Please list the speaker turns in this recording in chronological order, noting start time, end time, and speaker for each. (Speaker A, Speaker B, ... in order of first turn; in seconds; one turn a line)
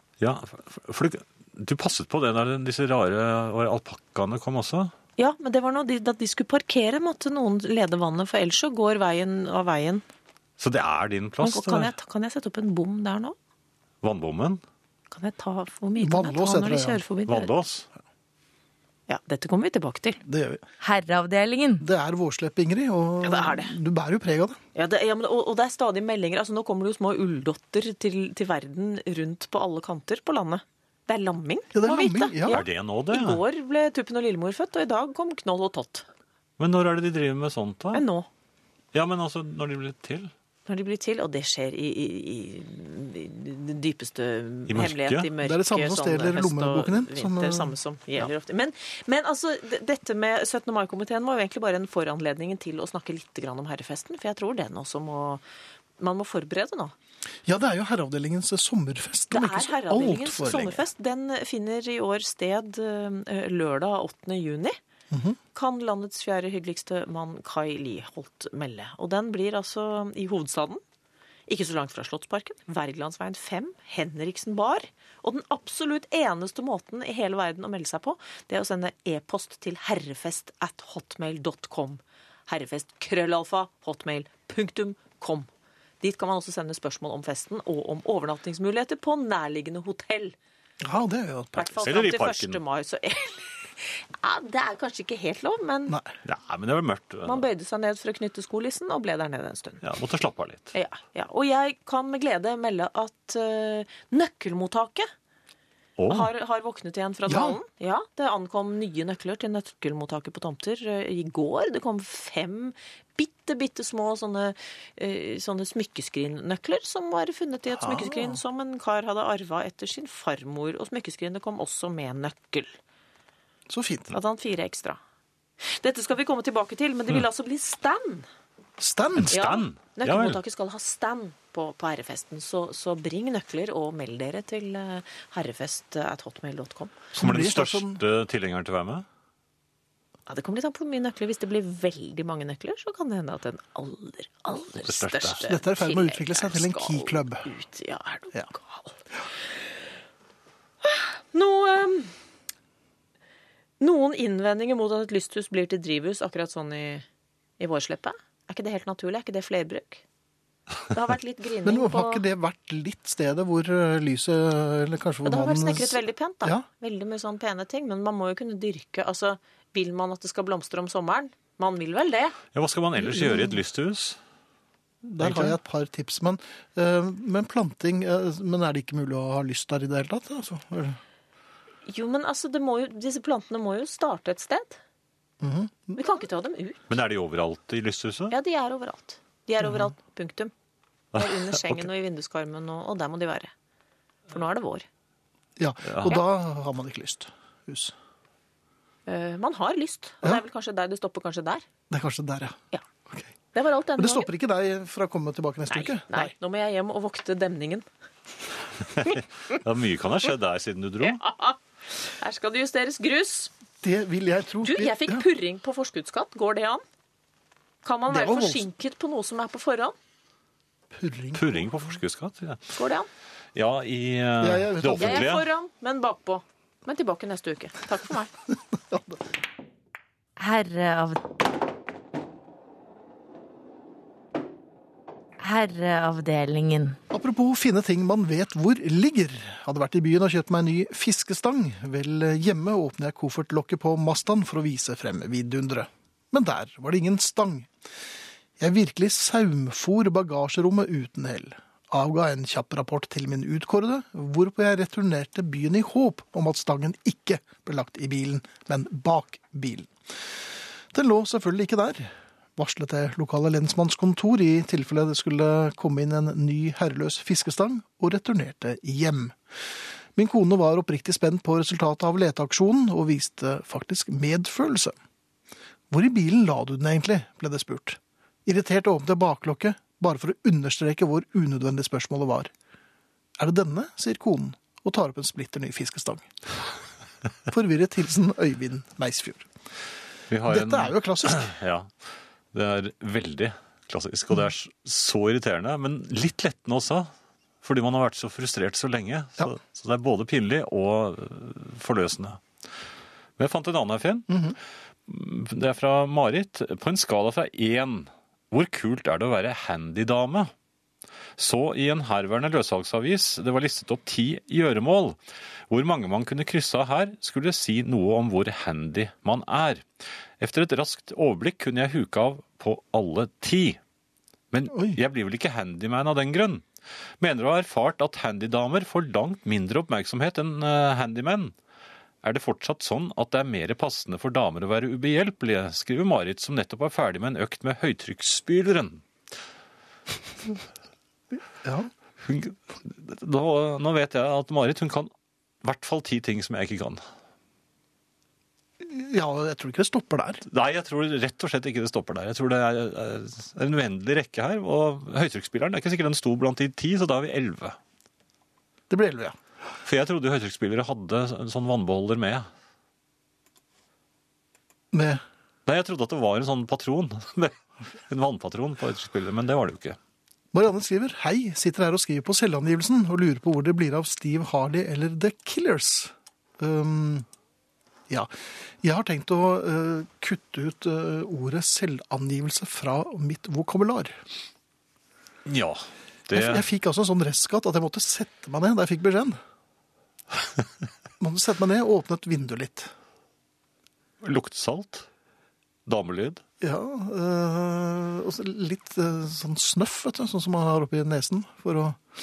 Speaker A: 0.2-4.9
Speaker B: 5.2-10.0
Speaker A: 10.6-11.9
Speaker B: 11.4-13.4
Speaker A: 14.0-14.6
Speaker B: 15.1-17.5
Speaker C: 16.0-17.0
Speaker A: 17.3-17.9
Speaker B: 19.1-20.2
Speaker C: 20.2-20.6
Speaker D: 20.8-21.8
Speaker C: 21.8-24.6
Speaker B: 23.2-23.8
Speaker B: 24.8-36.1
Speaker C: 31.7-32.6
Speaker A: 32.5-33.4
Speaker A: 36.6-38.0
Speaker B: 37.9-38.3
Speaker A: 38.9-40.3
Speaker B: 40.7-55.4
Speaker A: 44.7-45.3
Speaker C: 45.4-47.8
Speaker B: 56.0-56.9
Speaker C: 57.5-60.8
Speaker B: 59.3-64.8
Speaker C: 65.1-65.4
Speaker B: 65.5-70.8
Speaker B: 71.5-85.5
Speaker B: 86.0-90.3
Speaker C: 90.8-91.8
Speaker B: 91.6-96.0
Speaker A: 91.8-92.6
Speaker C: 95.9-96.1
Speaker A: 96.2-97.5
Speaker B: 97.3-99.8
Speaker A: 99.8-100.7
Speaker B: 100.7-105.1
Speaker A: 106.0-106.3
Speaker B: 106.1-122.7
Speaker C: 107.3-107.6
Speaker C: 117.8-118.4
Speaker C: 123.7-124.2
Speaker B: 124.1-125.0
Speaker B: 125.6-128.3
Speaker C: 128.8-129.3
Speaker A: 129.2-130.4
Speaker B: 129.3-137.0
Speaker C: 137.1-138.0
Speaker A: 137.2-139.1
Speaker B: 140.3-149.0
Speaker A: 144.8-145.5
Speaker C: 145.4-147.5
Speaker B: 150.8-152.1
Speaker B: 153.8-157.1
Speaker B: 157.6-160.0
Speaker B: 160.9-162.2
Speaker C: 161.6-166.7
Speaker B: 165.2-172.4
Speaker A: 172.5-174.2
Speaker C: 173.0-173.6
Speaker C: 175.0-181.0
Speaker A: 175.2-175.6
Speaker B: 181.9-184.8
Speaker C: 185.4-186.0
Speaker B: 186.0-186.8
Speaker A: 186.9-188.3
Speaker B: 188.3-190.5
Speaker C: 189.6-189.9
Speaker B: 191.1-193.5
Speaker A: 191.2-191.8
Speaker B: 194.3-194.9
Speaker C: 195.6-197.9
Speaker A: 195.8-196.1
Speaker B: 199.1-201.7
Speaker C: 201.9-202.6
Speaker B: 203.5-204.3
Speaker C: 204.0-206.3
Speaker B: 205.7-207.9
Speaker A: 209.0-211.2
Speaker B: 211.0-213.5
Speaker C: 213.8-215.2
Speaker B: 214.6-216.8
Speaker B: 217.8-219.9
Speaker C: 218.1-218.7
Speaker C: 220.9-221.5
Speaker A: 221.3-222.7
Speaker B: 222.7-223.1
Speaker A: 223.6-225.5
Speaker C: 224.4-225.3
Speaker B: 225.0-228.3
Speaker C: 228.9-229.2
Speaker D: 230.4-231.2
Speaker D: 235.4-237.0
Speaker C: 237.1-247.7
Speaker C: 248.6-259.9
Speaker C: 260.9-269.4
Speaker C: 270.2-274.9
Speaker C: 275.9-282.5
Speaker C: 283.4-286.3
Speaker C: 287.5-289.5
Speaker A: 290.3-291.9
Speaker C: 290.4-291.5
Speaker A: 292.5-297.1
Speaker A: 297.6-302.4
Speaker A: 303.4-304.4
Speaker C: 304.3-304.6
Speaker A: 305.1-310.5
Speaker A: 311.4-315.2
Speaker A: 315.7-323.8
Speaker A: 324.5-326.6
Speaker C: 324.7-325.0
Speaker A: 327.2-331.5
Speaker A: 332.2-339.1
Speaker C: 341.6-341.9
Speaker A: 342.2-345.1
Speaker A: 345.6-347.0
Speaker C: 348.8-350.4
Speaker A: 350.5-357.8
Speaker C: 358.9-359.4
Speaker A: 359.8-362.5
Speaker C: 364.9-365.2
Speaker A: 365.7-370.0
Speaker C: 370.5-377.3
Speaker C: 378.1-384.2
Speaker A: 385.5-386.6
Speaker C: 386.3-389.4
Speaker C: 391.2-392.9
Speaker A: 394.2-395.1
Speaker A: 395.9-396.4
Speaker C: 396.6-402.0